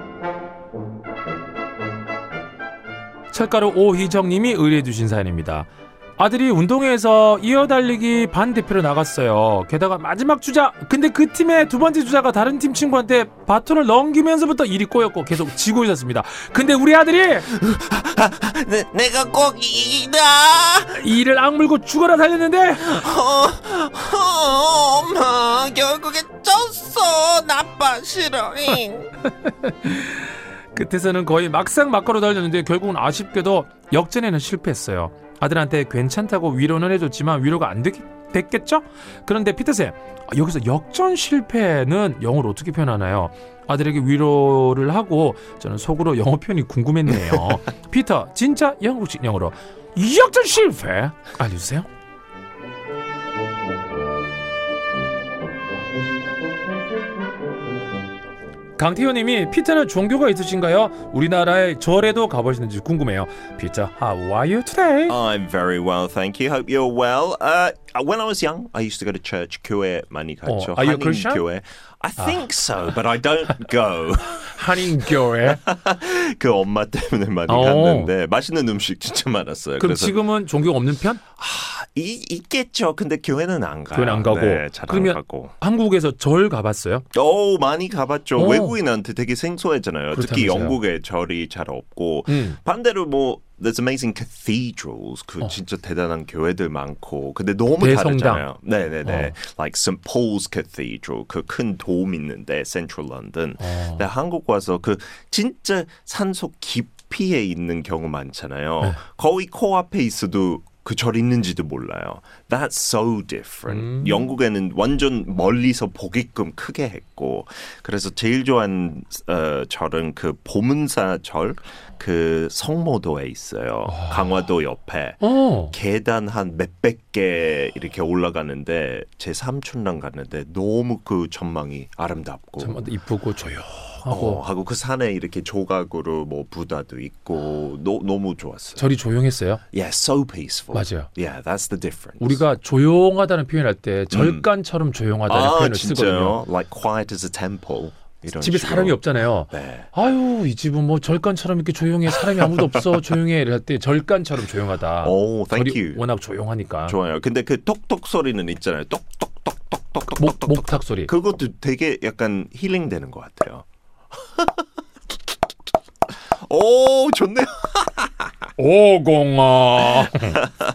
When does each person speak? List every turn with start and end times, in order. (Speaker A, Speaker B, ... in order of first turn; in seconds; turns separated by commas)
Speaker A: 3.3-17.5, Speaker B: 17.4-21.0, Speaker A: 20.9-23.0, Speaker B: 22.8-29.1, Speaker A: 29.4-51.9, Speaker B: 47.1-47.6, Speaker A: 58.8-65.2, Speaker B: 65.1-74.8, Speaker A: 70.5-71.4, Speaker A: 72.2-72.4, Speaker A: 74.4-75.6, Speaker B: 75.4-80.2, Speaker A: 77.5-78.1, Speaker A: 79.8-81.2, Speaker B: 81.3-85.5, Speaker A: 83.9-87.0, Speaker B: 87.1-132.8, Speaker A: 88.3-88.8, Speaker A: 90.1-90.8, Speaker A: 92.3-92.6, Speaker A: 97.8-98.4, Speaker A: 99.0-99.3, Speaker A: 103.6-104.0, Speaker A: 113.7-114.3, Speaker A: 123.9-124.3, Speaker A: 125.2-125.7, Speaker A: 132.6-134.4, Speaker B: 134.1-138.9, Speaker A: 138.8-139.6, Speaker B: 139.7-142.4, Speaker A: 140.7-141.1, Speaker A: 142.2-146.4, Speaker B: 144.1-144.4, Speaker B: 145.3-149.9, Speaker A: 148.3-156.9, Speaker B: 155.0-156.0, Speaker B: 156.9-163.6, Speaker A: 160.2-161.1, Speaker B: 166.3-168.3, Speaker A: 168.6-170.4